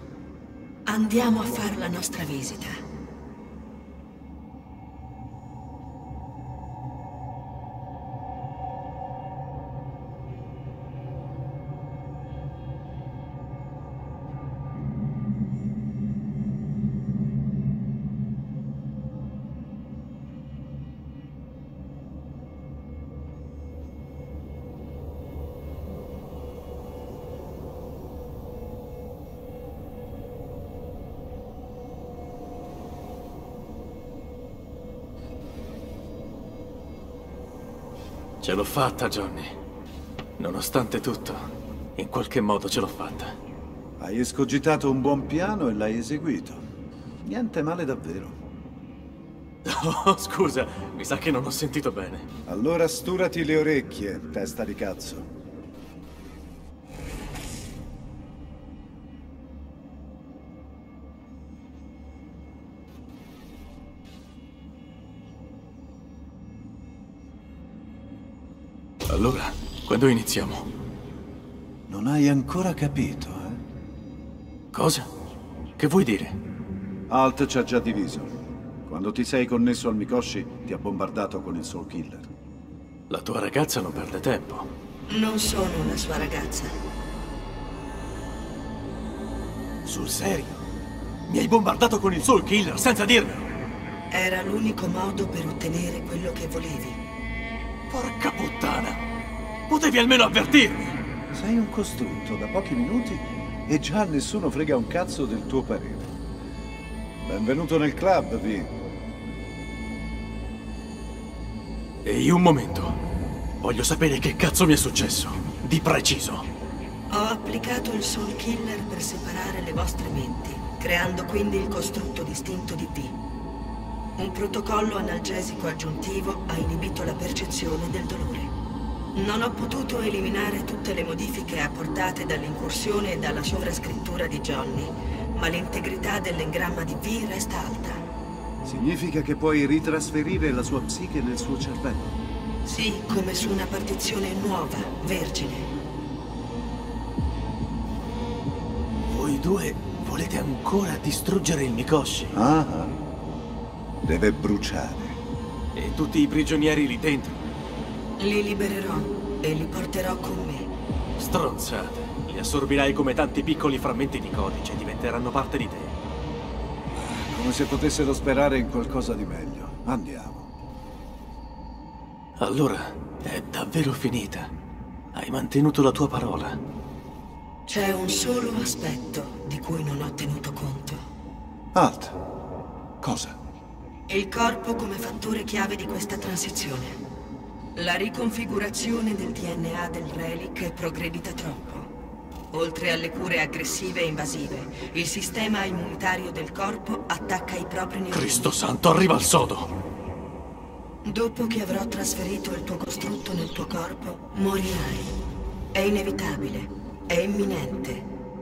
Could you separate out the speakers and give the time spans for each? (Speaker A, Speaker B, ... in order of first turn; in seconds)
Speaker A: 0.8-2.8, 85.1-86.7, 94.1-97.0, 117.1-123.2, 124.2-128.5, 129.1-138.0, 142.6-145.7, 158.2-160.7, 177.7-181.0, 184.1-187.0, 187.7-191.9, 192.5-198.5, 201.0-205.1, 205.7-208.1
Speaker B: 38.4-39.5, 40.4-41.4, 42.0-43.3, 49.6-52.2, 69.1-70.7, 74.7-75.1, 75.8-76.4, 83.1-84.7, 89.8-90.6, 91.3-93.5, 97.9-99.0, 99.7-101.0, 112.0-113.0, 113.6-116.5, 149.1-152.3, 155.7-157.3, 161.2-165.9, 172.4-174.5, 175.1-176.6, 198.1-199.7
Speaker C: 44.0-46.6, 47.2-48.4, 52.5-55.3, 71.9-73.6, 77.1-78.3, 78.8-82.3, 101.3-106.1, 107.2-108.7, 138.6-142.1, 152.3-152.9, 154.0-155.2, 166.9-170.5, 181.7-182.2, 183.0-183.4